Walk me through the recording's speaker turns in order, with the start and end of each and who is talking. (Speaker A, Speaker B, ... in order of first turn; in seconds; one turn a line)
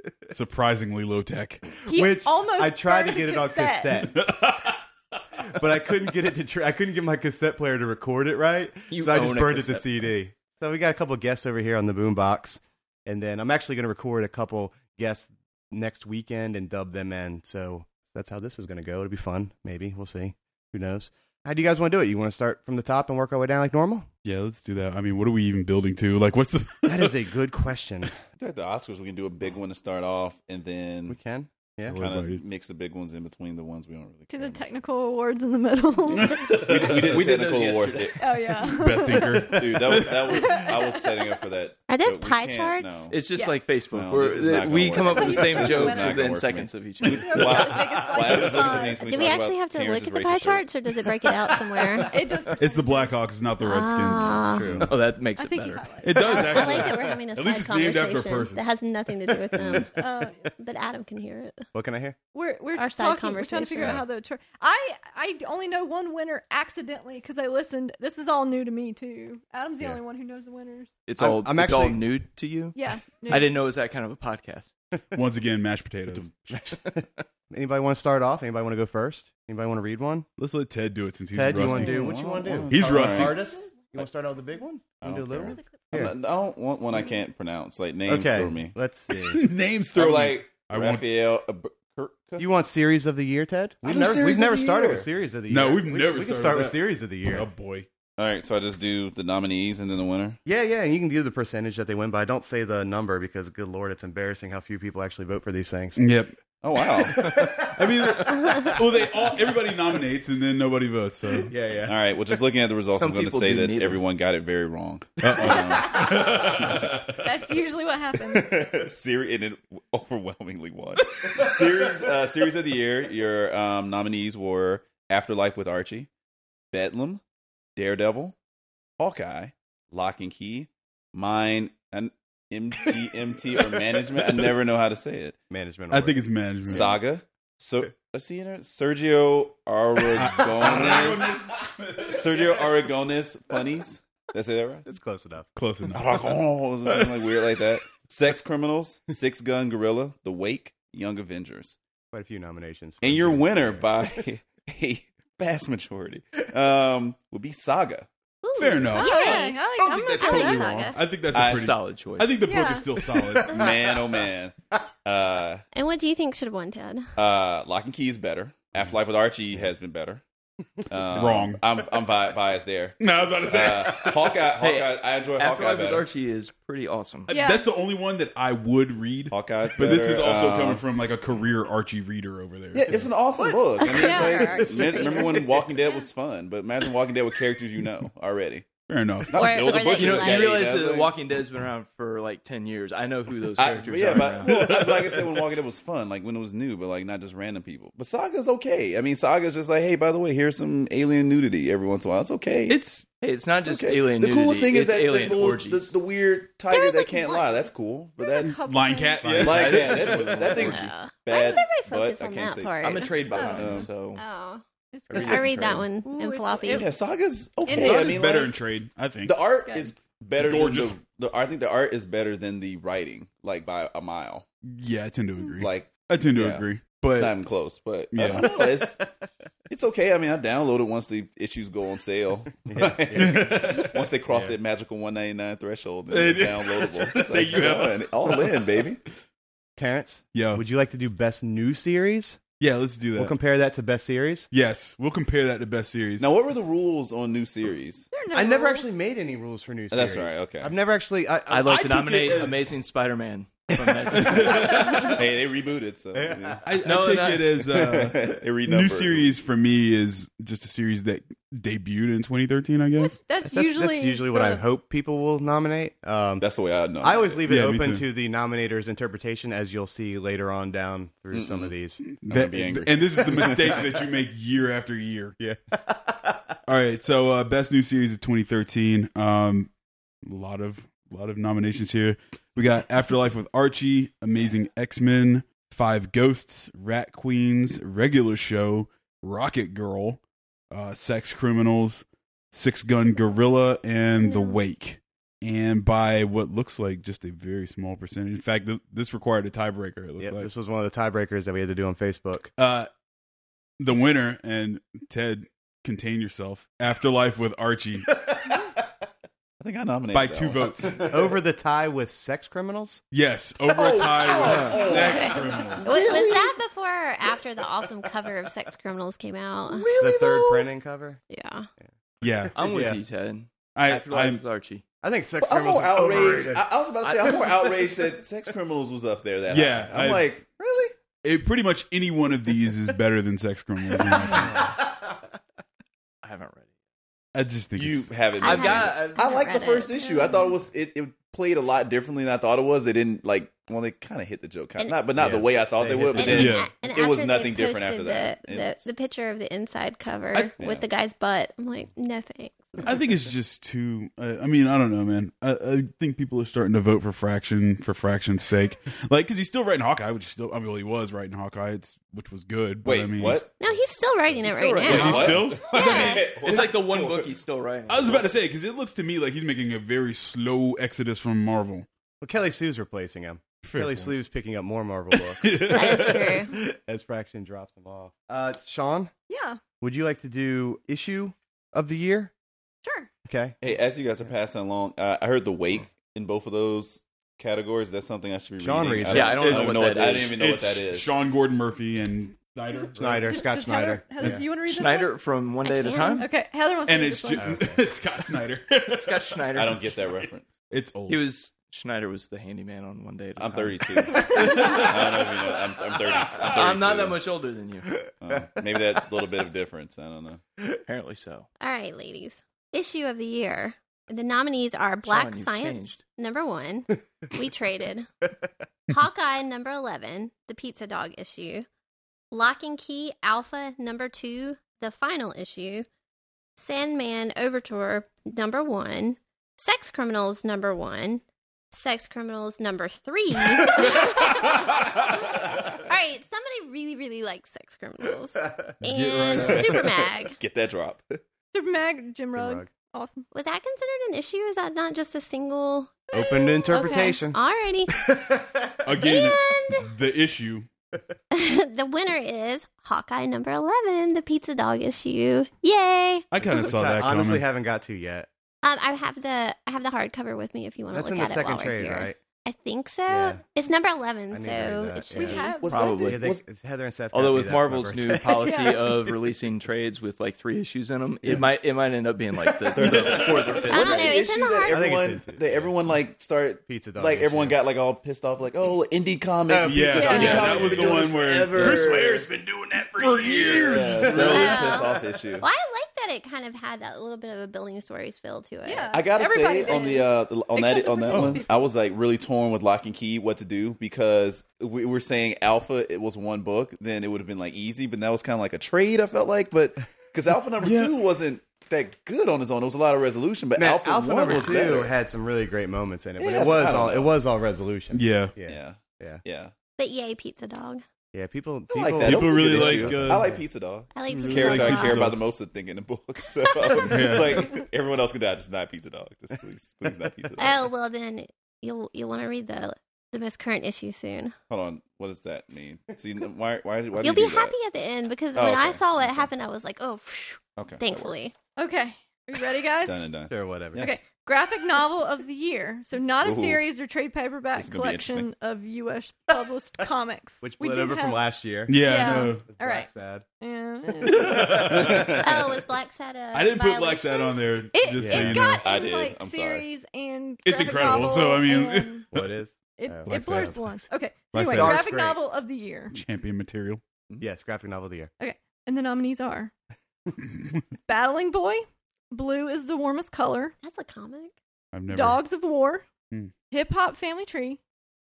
Speaker A: 0.3-1.7
Speaker B: 1.9-4.0
Speaker C: 1.9-4.2
Speaker A: 4.1-4.8
Speaker C: 5.5-24.1
Speaker D: 8.9-10.1
Speaker A: 24.2-27.1
Speaker C: 26.8-28.1
Speaker E: 28.4-31.2
Speaker C: 31.1-32.0
Speaker A: 31.9-32.4
Speaker E: 31.9-34.7
Speaker B: 34.3-36.7
Speaker A: 36.1-36.8
Speaker E: 36.5-38.8
Speaker D: 36.9-38.1
Speaker B: 38.2-39.3
Speaker A: 38.6-40.7
Speaker E: 39.4-43.2
Speaker B: 40.3-41.1
Speaker F: 41.9-43.1
Speaker D: 43.1-47.6
Speaker B: 43.4-43.6
Speaker E: 43.9-50.7
Speaker B: 45.0-46.3
Speaker B: 47.2-49.1
Speaker F: 48.9-52.2
Speaker B: 52.1-53.2
Speaker A: 52.6-54.5
Speaker F: 53.6-54.9
Speaker C: 54.4-54.9
Speaker D: 54.9-55.8
Speaker B: 55.4-56.8
Speaker A: 56.0-58.6
Speaker F: 56.2-61.6
Speaker E: 59.5-59.9
Speaker B: 59.9-60.5
Speaker C: 61.7-62.2
Speaker B: 62.3-70.9
Speaker F: 62.8-64.0
Speaker D: 71.1-74.7
Speaker C: 71.2-72.0
Speaker B: 72.8-73.5
Speaker A: 75.1-76.3
Speaker E: 76.1-76.7
Speaker C: 77.5-80.3
Speaker A: 80.4-82.2
Speaker C: 81.3-86.2
Speaker E: 81.5-83.4
Speaker A: 82.7-83.4
Speaker E: 85.0-88.8
Speaker C: 88.1-89.5
Speaker A: 89.3-91.1
Speaker E: 89.9-92.5
Speaker C: 92.4-97.5
Speaker E: 93.8-95.1
Speaker A: 95.5-96.8
Speaker A: 97.3-97.9
Speaker E: 98.2-100.4
Speaker C: 100.5-106.1
Speaker A: 106.0-106.3
Speaker E: 106.6-107.5
Speaker C: 106.9-108.3
Speaker A: 107.6-111.5
Speaker C: 111.5-112.0
Speaker E: 111.8-126.1
Speaker D: 112.9-114.0
Speaker A: 115.2-117.1
Speaker B: 115.5-116.1
Speaker B: 117.2-118.5
Speaker E: 126.7-127.2
Speaker E: 127.8-128.4
Speaker E: 129.0-135.4
Speaker C: 133.5-134.5
Speaker C: 135.5-137.0
Speaker A: 135.9-137.0
Speaker E: 136.7-144.9
Speaker A: 140.1-142.6
Speaker C: 144.9-145.5
Speaker A: 145.6-146.3
Speaker E: 145.9-151.8
Speaker C: 152.1-154.2
Speaker E: 153.0-158.1
Speaker F: 158.4-161.0
Speaker A: 158.6-163.8
Speaker B: 158.9-160.8
Speaker E: 161.3-161.7
Speaker D: 161.3-162.4
Speaker B: 162.4-162.9
Speaker E: 163.4-165.6
Speaker F: 165.7-167.1
Speaker E: 167.2-170.2
Speaker E: 170.9-176.1
Speaker A: 171.1-171.6
Speaker A: 173.0-174.5
Speaker D: 174.6-177.3
Speaker A: 177.3-183.1
Speaker B: 177.3-177.7
Speaker E: 179.3-180.8
Speaker E: 182.8-188.7
Speaker F: 183.4-185.7
Speaker B: 183.8-185.3
Speaker A: 188.9-189.6
Speaker E: 189.3-191.1
Speaker F: 189.3-190.6
Speaker D: 190.0-194.6
Speaker E: 193.6-202.8
Speaker A: 194.4-195.0
Speaker A: 202.7-203.1
Speaker D: 203.2-205.9
Speaker E: 203.6-208.6
Speaker F: 206.7-207.6
Speaker B: 208.2-209.3
Speaker A: 208.4-210.7
Speaker C: 209.2-209.7
Speaker D: 209.3-210.8
Speaker E: 209.4-213.9
Speaker F: 210.6-216.9
Speaker D: 212.8-214.2
Speaker B: 213.3-213.8
Speaker B: 214.9-216.9
Speaker D: 215.1-215.9
Speaker E: 216.7-218.6
Speaker A: 217.7-219.4
Speaker B: 217.8-218.0
Speaker E: 219.2-224.5
Speaker A: 220.4-221.0
Speaker A: 224.7-227.4
Speaker E: 225.6-229.0
Speaker A: 228.1-228.7
Speaker E: 229.7-239.0
Speaker C: 232.7-233.7
Speaker A: 233.2-234.0
Speaker C: 234.3-234.6
Speaker A: 236.1-238.7
Speaker C: 239.8-242.4
Speaker A: 240.3-240.6
Speaker A: 242.6-243.3
Speaker C: 243.2-244.5
Speaker A: 244.5-246.3
Speaker E: 246.2-248.1
Speaker B: 248.1-249.0
Speaker C: 248.3-251.9
Speaker E: 249.9-250.7
Speaker D: 251.5-255.1
Speaker A: 251.7-252.6
Speaker A: 254.1-255.2
Speaker E: 254.2-256.8
Speaker C: 256.1-256.6
Speaker A: 256.6-263.2
Speaker D: 256.8-257.5
Speaker E: 257.6-259.4
Speaker B: 263.0-264.6
Speaker C: 263.4-266.5
Speaker E: 266.4-267.4
Speaker C: 267.0-272.0
Speaker A: 267.4-268.0
Speaker E: 271.3-271.7
Speaker A: 272.0-275.4
Speaker E: 272.2-273.7
Speaker C: 273.3-274.0
Speaker C: 275.4-276.6
Speaker A: 276.7-279.7
Speaker A: 280.2-290.2
Speaker A: 290.7-300.5
Speaker F: 294.2-294.6
Speaker C: 300.2-302.5
Speaker A: 302.6-302.9
Speaker A: 303.8-308.1
Speaker E: 309.6-311.4
Speaker A: 310.1-311.1
Speaker C: 311.0-313.0
Speaker A: 313.1-316.1
Speaker E: 313.6-316.6
Speaker D: 314.4-314.9
Speaker F: 314.8-319.9
Speaker E: 319.7-320.7
Speaker C: 320.0-321.2
Speaker F: 321.3-321.7
Speaker A: 322.2-322.9
Speaker C: 322.2-323.0
Speaker D: 322.5-324.8
Speaker A: 323.8-324.4
Speaker C: 325.0-326.7
Speaker E: 325.4-331.0
Speaker D: 327.0-327.7
Speaker C: 327.2-328.1
Speaker A: 329.5-330.3
Speaker A: 331.2-334.7
Speaker C: 334.3-334.8
Speaker D: 336.2-336.7
Speaker A: 337.3-338.2
Speaker E: 337.8-348.9
Speaker F: 338.3-340.6
Speaker D: 338.4-339.2
Speaker F: 344.8-345.0
Speaker C: 345.2-346.6
Speaker F: 346.1-353.1
Speaker A: 346.2-346.8
Speaker E: 350.6-350.9
Speaker A: 352.8-363.5
Speaker E: 362.8-363.5
Speaker F: 363.6-366.4
Speaker D: 364.4-365.2
Speaker E: 364.8-367.1
Speaker A: 364.9-365.9
Speaker D: 366.1-368.3
Speaker A: 366.5-367.1
Speaker A: 367.9-371.9
Speaker C: 372.2-379.1
Speaker A: 373.6-374.1
Speaker A: 375.1-376.5
Speaker F: 375.6-376.5
Speaker B: 379.3-379.6
Speaker C: 379.8-382.3
Speaker B: 382.8-383.1
Speaker C: 383.2-383.6
Speaker E: 383.6-391.1
Speaker C: 388.6-389.5
Speaker D: 389.1-390.4
Speaker A: 389.3-393.5
Speaker C: 393.0-394.4
Speaker B: 393.3-395.2
Speaker A: 394.2-394.4
Speaker D: 394.7-396.3
Speaker F: 395.6-396.2
Speaker B: 395.8-397.5
Speaker A: 396.9-399.4
Speaker C: 397.4-397.8
Speaker D: 398.9-399.8
Speaker E: 399.6-400.5
Speaker A: 400.0-401.2
Speaker D: 401.1-404.4
Speaker E: 403.4-407.2
Speaker A: 404.4-404.8
Speaker B: 404.4-404.9
Speaker D: 406.4-407.9
Speaker E: 408.2-410.4
Speaker C: 408.3-408.6
Speaker D: 410.9-411.5
Speaker F: 411.6-418.1
Speaker D: 415.1-416.0
Speaker F: 418.9-421.7
Speaker F: 422.3-425.9
Speaker F: 426.6-440.4
Speaker A: 438.8-439.8
Speaker E: 439.3-441.2
Speaker B: 441.5-443.3
Speaker C: 442.4-442.7
Speaker F: 443.3-447.9
Speaker C: 446.1-447.4
Speaker B: 446.1-447.1
Speaker C: 448.0-448.8
Speaker A: 448.9-450.7
Speaker F: 449.0-449.9
Speaker F: 451.3-456.3
Speaker A: 456.3-457.4
Speaker C: 456.4-458.3
Speaker F: 458.6-465.6
Speaker C: 460.9-462.2
Speaker C: 463.1-463.4
Speaker C: 464.3-465.5
Speaker B: 465.1-465.7
Speaker E: 465.6-466.4
Speaker D: 465.6-466.3
Speaker C: 466.0-469.1
Speaker D: 467.1-474.1
Speaker B: 468.5-468.8
Speaker E: 472.8-482.3
Speaker F: 473.7-474.9
Speaker C: 474.7-475.7
Speaker C: 476.7-477.6
Speaker C: 479.5-482.1
Speaker A: 479.6-484.7
Speaker B: 480.0-480.5
Speaker E: 483.0-485.5
Speaker C: 483.7-484.9
Speaker F: 484.3-489.1
Speaker B: 488.7-491.5
Speaker E: 488.9-504.9
Speaker A: 500.6-500.9
Speaker C: 503.6-509.2
Speaker E: 506.2-507.1
Speaker A: 507.9-508.4
Speaker E: 508.5-509.5
Speaker F: 509.8-510.8
Speaker C: 511.1-513.4
Speaker E: 511.7-520.6
Speaker A: 512.0-513.4
Speaker F: 513.9-515.1
Speaker A: 514.1-515.2
Speaker F: 516.5-517.0
Speaker A: 516.8-517.4
Speaker F: 520.4-524.3
Speaker E: 524.5-527.5
Speaker F: 527.0-531.3
Speaker E: 528.4-529.3
Speaker E: 530.6-531.3
Speaker B: 531.6-533.0
Speaker E: 532.8-534.0
Speaker C: 533.3-533.9
Speaker B: 533.8-541.2
Speaker E: 536.2-536.6
Speaker E: 537.6-538.3
Speaker C: 540.4-543.2
Speaker A: 541.7-542.5
Speaker B: 541.8-542.9
Speaker B: 543.4-544.4
Speaker C: 544.0-545.1
Speaker A: 544.1-545.1
Speaker E: 544.5-545.6
Speaker F: 545.2-548.1
Speaker A: 546.3-548.6
Speaker B: 547.8-552.1
Speaker C: 547.9-548.4
Speaker E: 548.6-549.7
Speaker A: 550.5-552.3
Speaker C: 552.1-553.6
Speaker B: 552.8-556.0
Speaker A: 553.1-555.0
Speaker C: 554.5-555.2
Speaker A: 555.9-556.8
Speaker C: 557.2-558.1
Speaker B: 558.2-559.5
Speaker A: 560.3-560.6
Speaker B: 560.9-563.5
Speaker F: 563.6-564.3
Speaker A: 564.7-565.2
Speaker B: 564.9-565.9
Speaker B: 566.5-567.6